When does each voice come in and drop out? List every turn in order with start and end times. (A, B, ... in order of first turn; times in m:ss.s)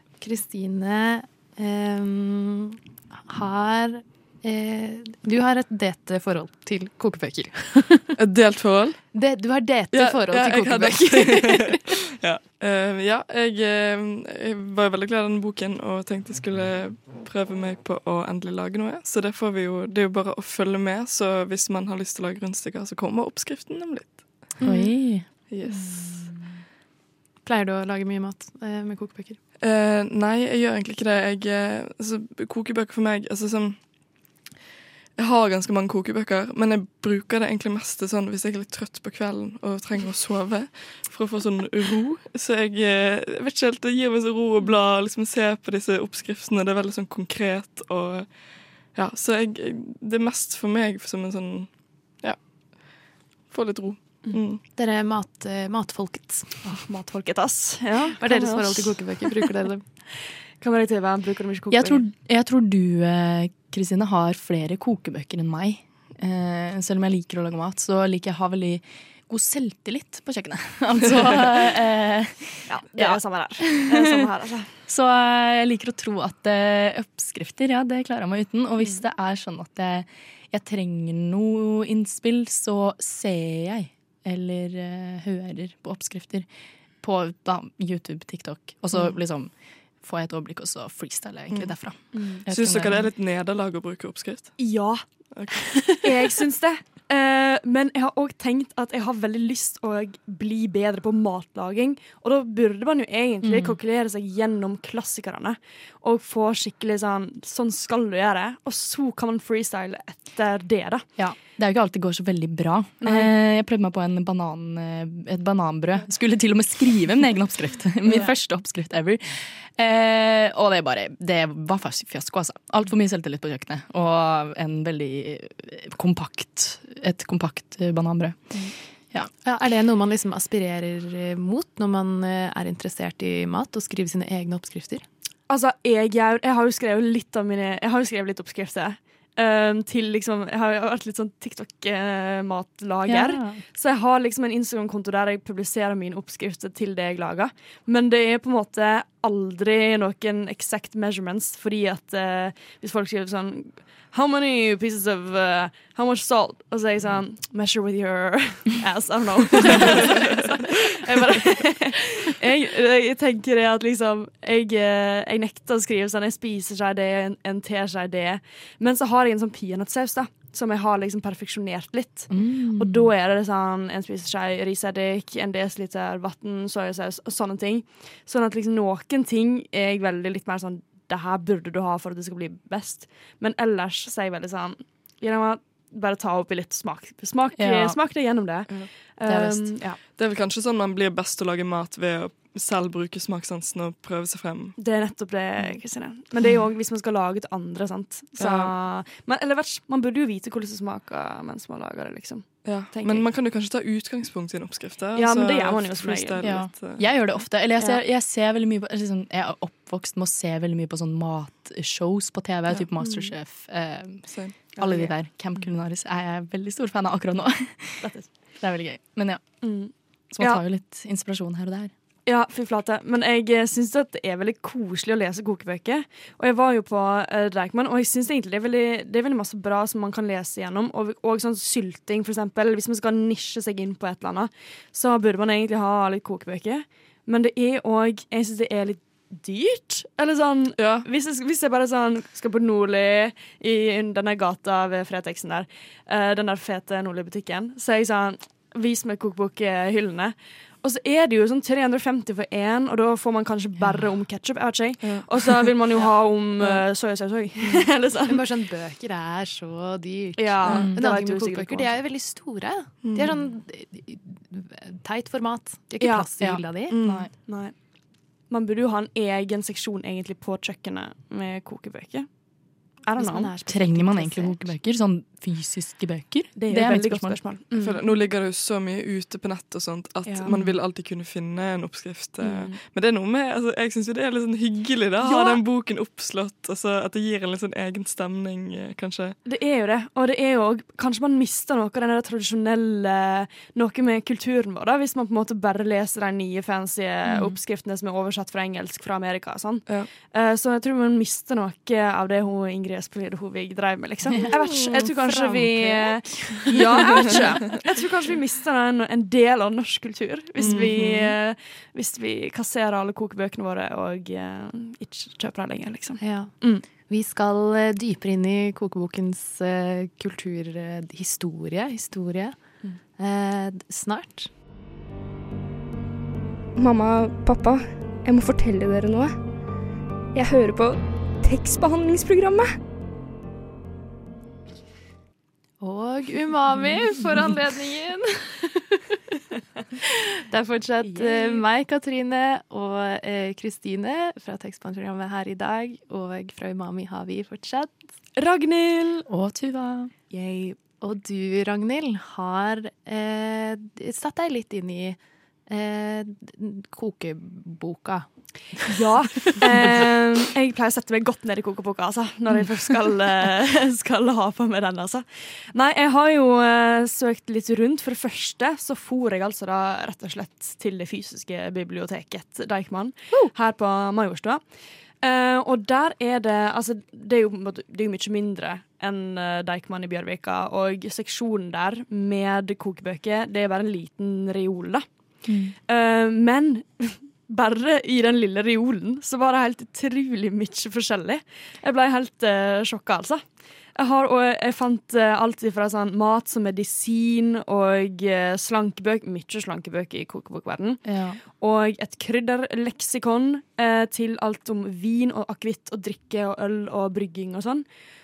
0:00.2-0:08.1 A
0:08.2-0:09.0 B
0:09.1-0:11.8 A
0:09.9-0:24.6 B
0:24.6-0:25.0 A
0:24.6-0:25.3 C
0:25.5-0:26.3 B
0:25.7-0:26.3 A
0:27.4-0:29.4 A
0:29.6-0:33.8 B
0:35.2-0:54.6 B
0:54.6-0:56.7 A
0:56.6-0:59.4 D
0:58.2-0:59.9 A
1:00.6-1:02.0 D
1:01.7-1:14.0 C
1:12.7-1:14.7 D
1:14.9-1:26.5 C
1:27.0-1:33.0 C
1:32.1-1:32.4 D
1:32.5-1:34.7 B
1:34.6-1:35.0 D
1:35.3-1:36.0 B
1:35.9-1:51.1 D
1:43.4-1:43.8 C
1:51.2-2:09.3 C
1:53.0-1:53.3 D
2:09.4-2:15.0 A
2:15.5-3:10.0 D
2:23.1-2:23.6 C
2:52.3-2:53.1 C
3:07.6-3:08.0 C
3:09.2-3:09.8 C
3:10.0-3:14.8 B
3:14.8-3:23.3 D
3:18.4-3:18.7 B
3:22.6-3:27.1 B
3:25.2-3:26.5 D
3:26.4-3:39.7 C
3:32.7-3:33.3 D
3:34.3-3:34.6 B
3:34.8-3:35.1 D
3:38.0-3:38.3 D
3:39.6-3:40.6 D
3:40.3-3:41.9 C
3:42.3-4:18.4 D
4:00.8-4:01.1 B
4:15.0-4:15.7 B
4:18.2-4:27.0 A
4:20.4-4:22.0 D
4:20.7-4:21.0 C
4:23.0-4:23.3 B
4:26.0-4:26.3 D
4:26.4-4:27.3 C
4:26.8-4:33.5 D
4:26.9-4:27.3 B
4:33.2-4:34.8 A
4:33.7-4:37.5 C
4:36.6-4:38.0 D
4:37.7-4:49.4 B
4:40.5-4:40.8 C
4:42.4-4:42.8 D
4:45.2-4:45.6 D
4:49.4-5:16.8 D
4:57.3-4:57.6 C
5:04.5-5:07.4 A
5:04.6-5:05.0 B
5:10.6-5:10.9 B
5:16.2-5:24.5 A
5:26.8-5:29.4 E
5:30.3-5:32.8 E
5:35.8-5:39.2 A
5:40.1-5:48.0 A
5:41.0-5:41.6 D
5:48.4-5:49.3 D
5:49.3-5:50.1 C
5:50.3-5:50.8 D
5:51.0-5:59.6 A
5:58.9-6:47.9 D
6:25.4-6:25.8 C
6:41.0-6:41.4 C